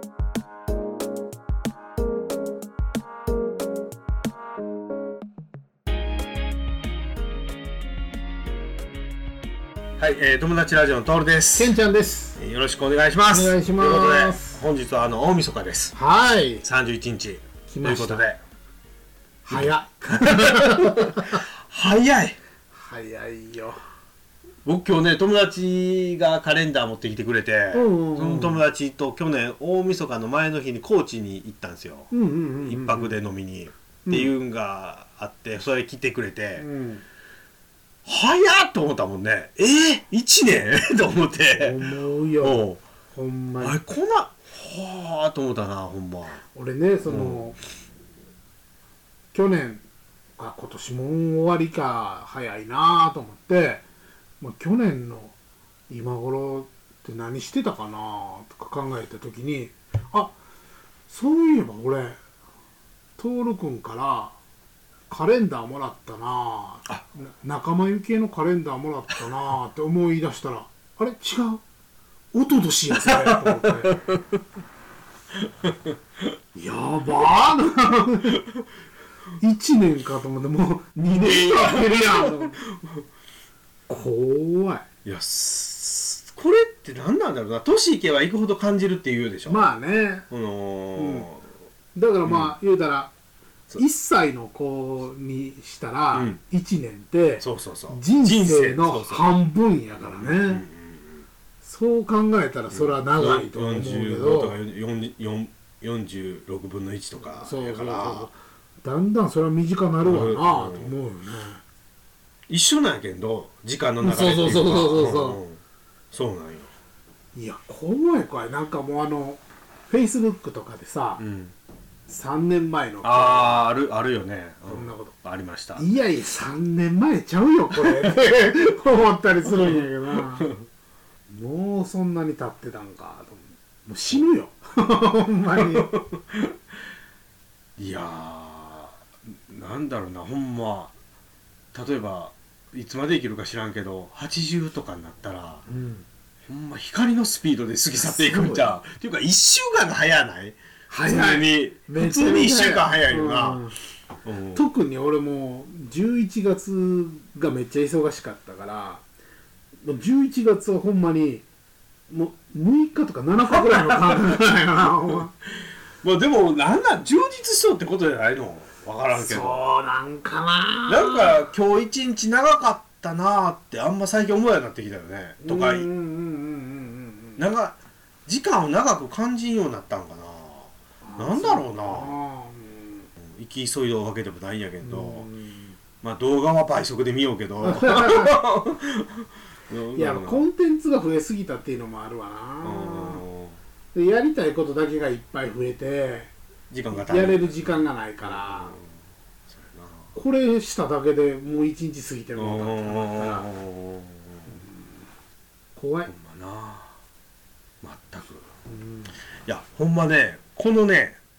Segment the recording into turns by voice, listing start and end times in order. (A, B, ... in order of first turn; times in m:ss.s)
0:10.0-0:11.8 A
0:11.6-0:12.4 B
0:12.4-0:16.0 A
0:13.3-0:14.6 B
0:16.0-0:16.6 B
0:16.6-0:18.4 A
0:17.7-0:18.2 B
0:19.4-0:21.4 B
0:19.5-0:22.4 A
0:22.7-0:23.8 B
0:24.6-0:32.1 A
0:27.7-0:28.6 B
0:32.1-0:33.2 B
0:32.6-0:36.6 A
0:34.1-0:34.3 B
0:36.6-0:37.0 B
0:38.0-0:41.8 A
0:41.5-0:43.8 B
0:42.4-0:42.8 A
0:43.6-0:46.4 A
0:46.5-0:47.6 B
0:47.1-0:47.4 A
0:49.3-0:49.8 B
0:50.4-0:53.8 B
0:54.4-0:55.4 B
0:55.9-1:00.4 B
1:01.1-1:02.2 B
1:03.2-1:04.4 B
1:05.1-1:11.6 B
1:12.3-1:14.0 B
1:13.0-1:14.4 A
1:15.4-1:16.0 A
1:16.6-1:18.4 B
1:19.4-1:22.6 B
1:21.2-1:23.0 A
1:23.9-1:24.8 B
1:25.0-1:29.7 A
1:29.5-1:30.3 B
1:30.3-1:31.4 A
1:31.0-1:31.3 B
1:32.0-1:33.1 B
1:32.3-1:32.5 A
1:33.8-1:40.6 B
1:36.1-1:36.4 A
1:37.4-1:39.2 A
1:40.0-1:41.2 A
1:41.6-1:44.6 B
1:42.7-1:48.3 A
1:47.2-1:51.6 B
1:50.0-1:50.9 A
1:52.5-1:55.6 A
1:54.0-1:55.4 B
1:56.1-1:56.7 A
1:57.4-2:01.2 B
2:01.2-2:01.6 A
2:02.1-2:03.7 B
2:03.0-2:05.8 A
2:04.7-2:05.2 B
2:05.8-2:10.5 B
2:09.6-2:10.6 A
2:11.3-2:15.9 B
2:15.6-2:16.5 A
2:17.8-2:19.0 A
2:19.5-2:20.9 A
2:21.7-2:25.6 A
2:25.7-2:26.0 B
2:26.5-2:33.6 A
2:28.0-2:28.7 B
2:30.9-2:33.8 B
2:34.2-2:34.6 A
2:34.6-2:39.0 B
2:39.8-2:41.4 B
2:42.1-2:45.3 B
2:43.4-2:44.3 A
2:46.0-2:49.6 A
2:49.1-2:51.4 B
2:50.9-2:55.9 A
2:55.4-2:57.4 B
2:57.4-3:02.2 A
3:01.0-3:03.1 B
3:03.2-3:05.3 A
3:04.8-3:05.8 B
3:06.0-3:10.4 A
3:07.6-3:08.4 B
3:10.0-3:13.2 B
3:12.6-3:13.6 A
3:13.9-3:16.3 B
3:16.7-3:18.9 A
3:16.9-3:18.8 B
3:19.5-3:20.1 A
3:20.2-3:23.5 B
3:22.4-3:24.5 A
3:25.8-3:26.1 B
3:26.1-3:26.9 A
3:27.8-3:28.5 A
3:28.7-3:29.1 B
3:29.4-3:31.2 A